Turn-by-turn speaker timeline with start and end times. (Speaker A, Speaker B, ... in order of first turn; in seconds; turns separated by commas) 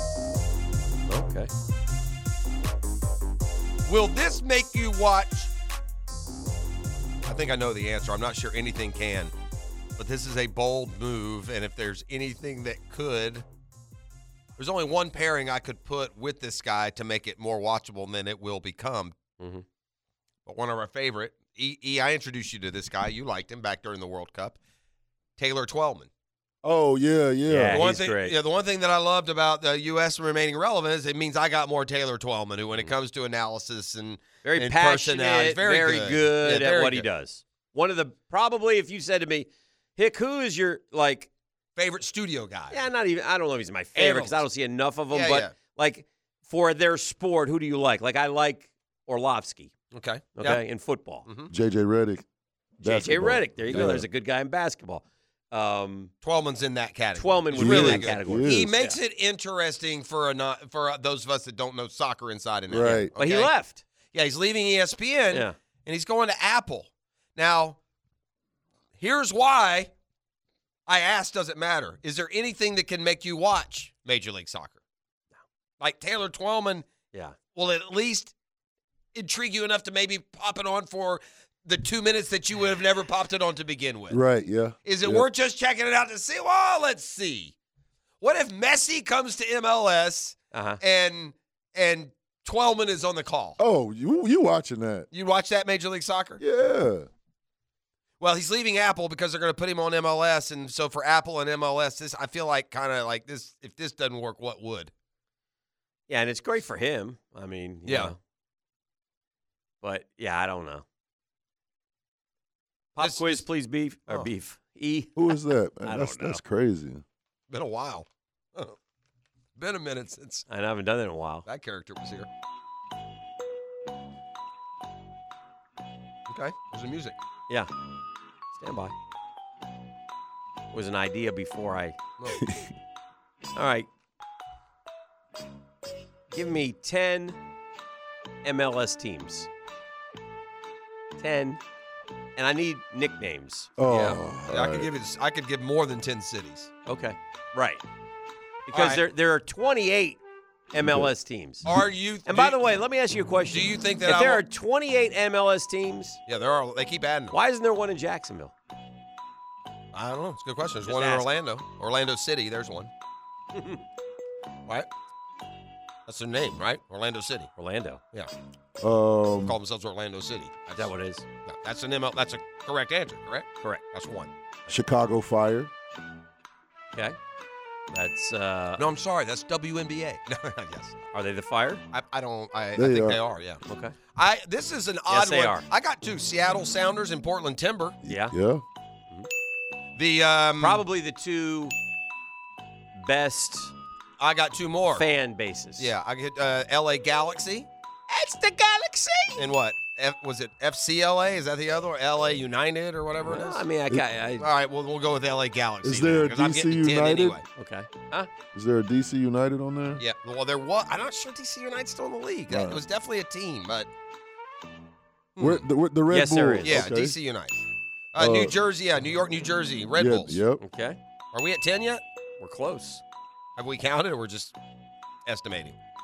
Speaker A: 1.1-1.5, Speaker B: 3.9-5.5, Speaker B: 7.2-9.3, Speaker B: 10.0-13.4, Speaker B: 14.6-19.2, Speaker B: 20.5-24.6, Speaker B: 25.4-26.1, Speaker C: 26.6-27.8, Speaker A: 27.5-28.4, Speaker B: 27.7-37.1, Speaker A: 34.4-41.3, Speaker B: 41.8-42.9, Speaker A: 42.7-49.7, Speaker B: 44.0-44.5, Speaker B: 45.1-45.5, Speaker B: 49.9-50.6, Speaker A: 50.4-51.3, Speaker B: 51.2-51.5, Speaker C: 51.5-52.2, Speaker C: 52.8-54.1, Speaker A: 52.8-56.1, Speaker B: 56.2-63.5, Speaker A: 57.2-59.0, Speaker C: 57.5-58.7, Speaker C: 62.7-63.1, Speaker A: 62.9-63.8, Speaker B: 64.1-67.8, Speaker B: 69.0-69.9, Speaker B: 70.9-74.8, Speaker B: 75.8-76.9, Speaker B: 77.5-78.3, Speaker B: 79.1-84.2, Speaker C: 84.1-85.3, Speaker B: 84.8-87.5, Speaker B: 88.2-93.6, Speaker A: 90.5-90.8, Speaker C: 93.6-95.1, Speaker B: 95.1-96.4, Speaker C: 96.4-97.1, Speaker B: 98.2-104.9, Speaker A: 106.1-108.2, Speaker B: 107.9-108.1, Speaker A: 109.8-110.8, Speaker A: 113.0-115.3, Speaker B: 113.0-113.5, Speaker C: 115.2-117.0, Speaker A: 115.8-116.4, Speaker B: 117.5-118.8, Speaker B: 119.6-120.5, Speaker A: 120.5-121.5, Speaker B: 121.5-122.3, Speaker B: 126.3-127.2, Speaker A: 128.5-128.9, Speaker A: 130.7-132.0, Speaker A: 133.6-133.9, Speaker A: 136.3-137.4, Speaker A: 138.4-139.5, Speaker A: 141.2-141.6, Speaker A: 142.4-144.2, Speaker C: 143.8-144.9, Speaker B: 144.5-146.7, Speaker A: 146.9-147.8, Speaker A: 148.7-150.2, Speaker B: 148.7-149.0, Speaker A: 150.7-151.7, Speaker C: 150.8-151.1, Speaker B: 151.7-152.6, Speaker A: 152.3-156.2, Speaker B: 153.5-154.4, Speaker B: 156.3-157.3, Speaker A: 157.3-158.5, Speaker B: 159.9-162.9, Speaker A: 160.8-161.3, Speaker A: 163.5-163.8, Speaker B: 166.1-167.5, Speaker A: 167.6-168.0, Speaker C: 168.8-169.6, Speaker B: 169.4-170.9, Speaker A: 170.8-171.2, Speaker B: 171.4-174.7, Speaker C: 174.7-175.7, Speaker A: 177.9-178.8, Speaker B: 178.8-181.0, Speaker A: 181.1-181.8, Speaker B: 181.9-183.6, Speaker C: 182.8-183.2, Speaker A: 183.7-183.9, Speaker B: 184.2-188.0, Speaker A: 185.1-185.7, Speaker C: 188.1-188.6, Speaker A: 188.1-188.3, Speaker B: 190.0-190.8, Speaker A: 190.6-191.8, Speaker A: 193.0-193.8, Speaker B: 194.2-195.1, Speaker A: 194.9-195.9, Speaker B: 195.8-197.7, Speaker A: 198.1-199.4, Speaker B: 199.4-203.6, Speaker A: 203.2-204.5, Speaker B: 204.4-207.4, Speaker C: 205.8-207.4, Speaker A: 207.6-208.3, Speaker C: 208.5-210.0, Speaker B: 210.0-213.9, Speaker C: 212.5-212.8, Speaker B: 215.4-215.7, Speaker C: 215.4-217.2, Speaker A: 216.1-216.8, Speaker B: 216.6-217.6, Speaker B: 218.1-220.4, Speaker C: 218.2-218.6, Speaker C: 220.0-220.6, Speaker A: 220.6-221.0, Speaker B: 221.3-222.0, Speaker A: 222.4-223.0, Speaker B: 223.6-224.6, Speaker B: 225.3-225.8